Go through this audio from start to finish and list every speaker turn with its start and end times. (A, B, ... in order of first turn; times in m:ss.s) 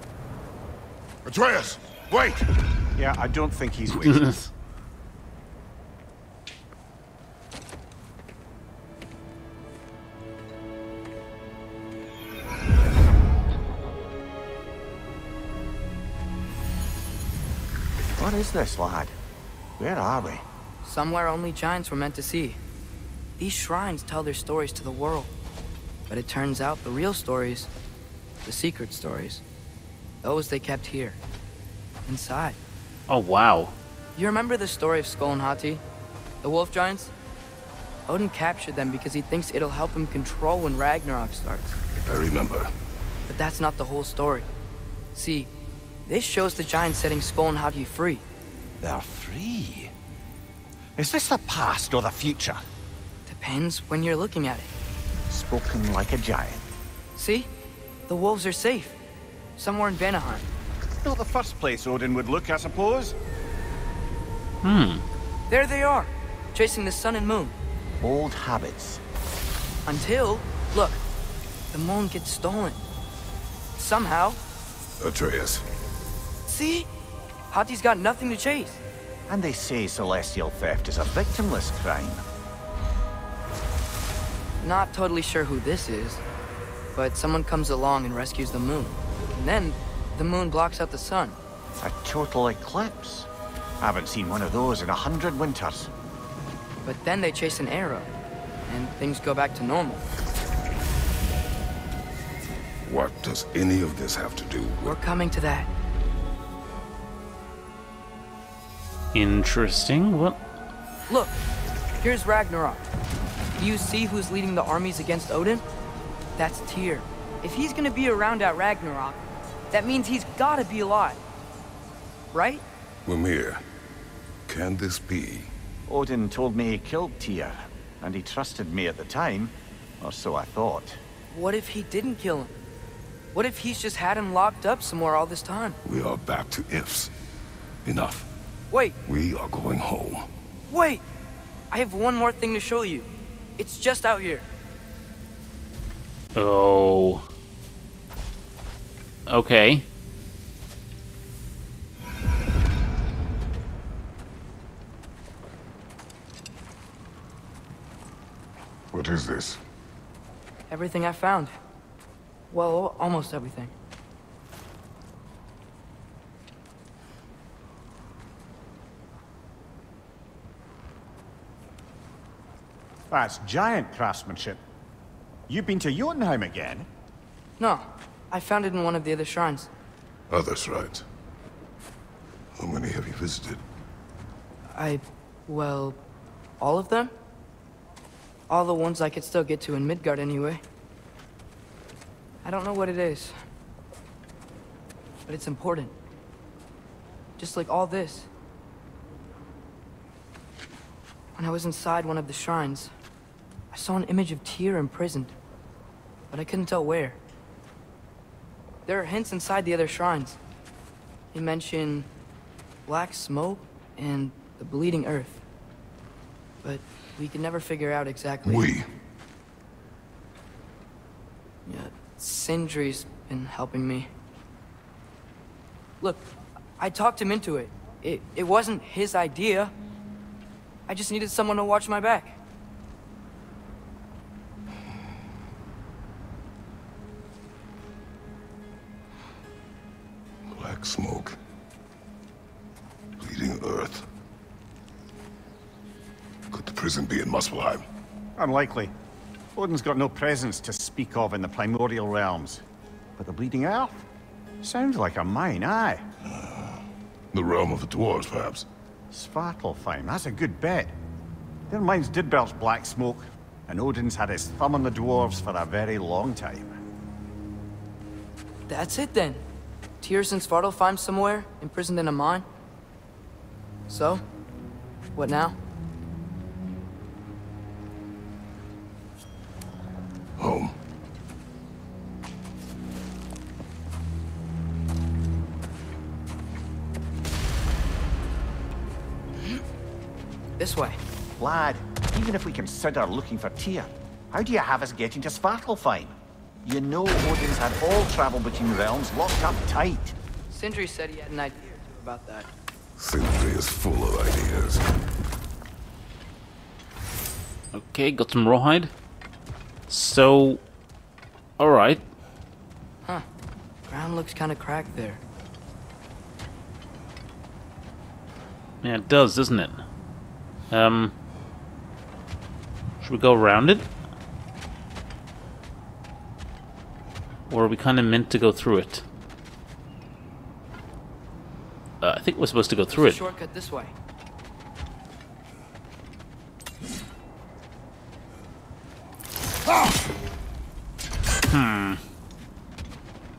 0:01.3-0:02.4 A
0:03.0-0:04.2 B
0:04.0-0:04.5 C
0:18.2-0:19.1 B
0:19.8-0:20.4 B
0:20.8-0:22.6 D
0:23.4-0:25.3 D
0:26.1-0:27.7 D
0:28.4-0:29.4 D
0:30.2-0:31.2 D
0:32.0-0:32.6 D
0:33.1-0:33.7 C
0:34.2-0:35.8 D
0:36.4-0:37.1 D
0:38.1-0:41.8 D
0:42.0-0:42.7 A
0:43.3-0:44.5 D
0:45.1-0:45.5 D
0:46.0-0:48.2 D
0:48.8-0:49.9 B
0:51.0-0:52.6 B
0:53.3-0:54.7 D
0:55.3-0:56.6 B
0:57.2-0:57.5 D
0:58.1-0:59.0 D
0:59.6-1:00.5 D
1:01.0-1:03.2 B
1:04.6-1:05.0 C
1:05.5-1:07.6 D
1:08.0-1:09.0 B
1:09.8-1:11.0 D
1:11.7-1:12.8 D
1:13.8-1:14.4 D
1:15.0-1:15.6 A
1:16.4-1:16.9 D
1:17.5-1:18.8 D
1:19.3-1:22.2 B
1:24.6-1:26.2 D
1:26.9-1:31.4 D
1:31.8-1:33.3 B
1:33.8-1:35.9 B
1:36.8-1:38.1 D
1:38.7-1:40.1 D
1:42.8-1:45.0 A
1:44.8-1:45.7 D
1:49.1-1:50.4 C
1:51.1-1:51.4 D
1:52.0-1:52.8 D
1:53.6-1:55.6 D
1:56.4-2:01.2 D
2:02.3-2:02.6 D
2:03.0-2:03.6 A
2:04.5-2:05.5 A
2:05.9-2:11.0 B
2:11.3-2:12.5 D
2:13.3-2:15.8 D
2:15.8-2:17.1 A
2:17.8-2:18.3 A
2:18.7-2:19.0 D
2:19.1-2:20.3 A
2:20.7-2:21.0 D
2:21.7-2:24.4 D
2:26.3-2:27.2 C
2:29.3-2:29.8 C
2:38.9-2:39.6 A
2:40.7-2:41.5 D
2:42.5-2:43.7 D
2:53.1-2:54.6 B
2:55.5-2:56.9 B
2:57.6-2:59.7 D
3:00.3-3:01.0 A
3:02.6-3:03.6 A
3:04.7-3:06.0 D
3:06.6-3:07.1 D
3:08.5-3:10.6 D
3:12.4-3:13.3 D
3:15.3-3:15.9 D
3:17.4-3:18.3 D
3:21.4-3:22.9 D
3:23.7-3:25.3 D
3:26.3-3:27.2 D
3:28.9-3:30.4 D
3:31.3-3:32.1 D
3:32.8-3:35.4 D
3:36.6-3:38.7 D
3:38.4-3:38.9 A
3:41.7-3:44.1 D
3:46.0-3:46.3 D
3:46.8-3:49.7 D
3:50.9-3:52.4 D
4:00.5-4:01.4 A
4:03.2-4:04.0 A
4:06.5-4:07.8 A
4:08.4-4:08.9 B
4:09.5-4:12.6 B
4:13.2-4:14.0 B
4:14.6-4:16.0 B
4:16.4-4:16.7 A
4:17.3-4:18.7 A
4:19.1-4:20.9 B
4:21.7-4:26.8 B
4:28.7-4:29.4 D
4:30.0-4:32.4 D
4:33.9-4:34.2 D
4:35.2-4:35.6 D
4:40.4-4:40.7 A
4:50.6-4:51.0 D
4:51.4-5:00.1 B
5:00.5-5:02.5 D
5:03.0-5:04.8 A
5:07.7-5:08.9 C
5:09.9-5:10.6 C
5:11.6-5:12.0 C
5:13.9-5:15.2 D
5:18.8-5:19.8 C
5:20.7-5:21.1 C
5:23.0-5:23.9 C
5:27.5-5:29.0 C
5:32.0-5:33.2 C
5:32.9-5:33.9 D
5:41.5-5:42.0 C